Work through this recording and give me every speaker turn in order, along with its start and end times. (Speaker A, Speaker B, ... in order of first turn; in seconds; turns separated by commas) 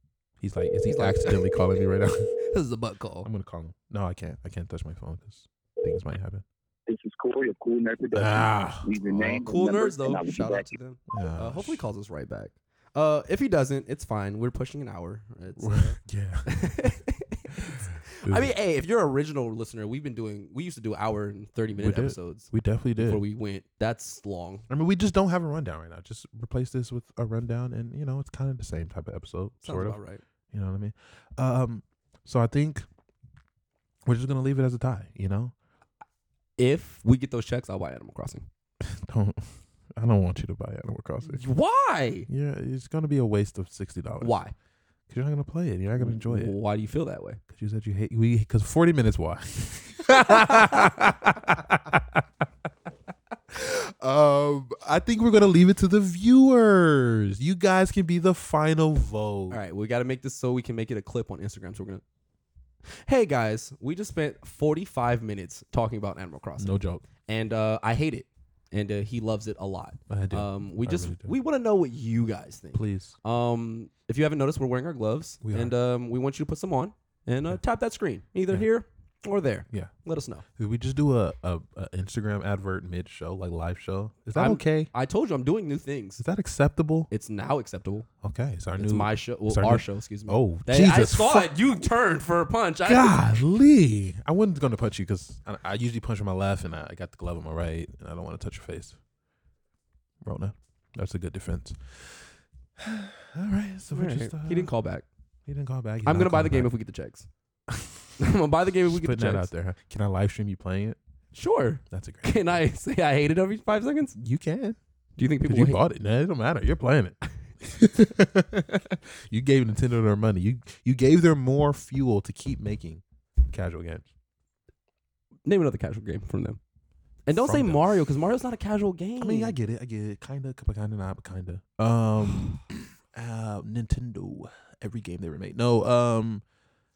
Speaker A: 0.4-2.3, Speaker B: 0.9-1.5, Speaker B: 2.4-3.3, Speaker A: 3.2-6.4, Speaker C: 6.9-10.8, Speaker A: 8.1-9.4, Speaker B: 9.3-24.7, Speaker A: 11.1-11.8, Speaker A: 15.6-16.6, Speaker A: 18.2-18.5, Speaker A: 21.7-23.2, Speaker A: 24.7-30.0, Speaker B: 29.6-30.2, Speaker A: 30.5-32.9, Speaker A: 34.0-35.5, Speaker B: 36.6-38.5, Speaker A: 38.8-41.4, Speaker B: 41.2-42.3, Speaker A: 42.3-44.4, Speaker B: 44.2-44.5, Speaker A: 45.1-46.5, Speaker B: 46.0-47.4, Speaker A: 47.5-52.2, Speaker B: 50.2-50.8, Speaker A: 53.5-59.6, Speaker B: 59.5-62.0, Speaker B: 63.0-80.4, Speaker A: 66.6-67.0, Speaker A: 70.1-71.3, Speaker A: 72.7-73.2, Speaker A: 75.4-75.7, Speaker A: 80.5-84.9, Speaker B: 84.3-86.2, Speaker A: 86.2-87.1, Speaker B: 87.1-88.1, Speaker A: 88.2-91.5, Speaker B: 88.8-93.2, Speaker A: 92.8-99.0, Speaker A: 100.2-104.7, Speaker B: 103.9-105.0, Speaker A: 105.5-106.7, Speaker B: 106.0-107.3, Speaker A: 107.7-107.9, Speaker B: 108.2-109.5, Speaker A: 108.9-111.0, Speaker B: 111.3-114.2, Speaker A: 111.9-112.4, Speaker A: 114.2-114.8, Speaker B: 115.2-115.8, Speaker A: 115.4-124.1, Speaker B: 125.5-126.6, Speaker B: 127.2-129.6, Speaker A: 127.3-127.9, Speaker A: 129.2-136.4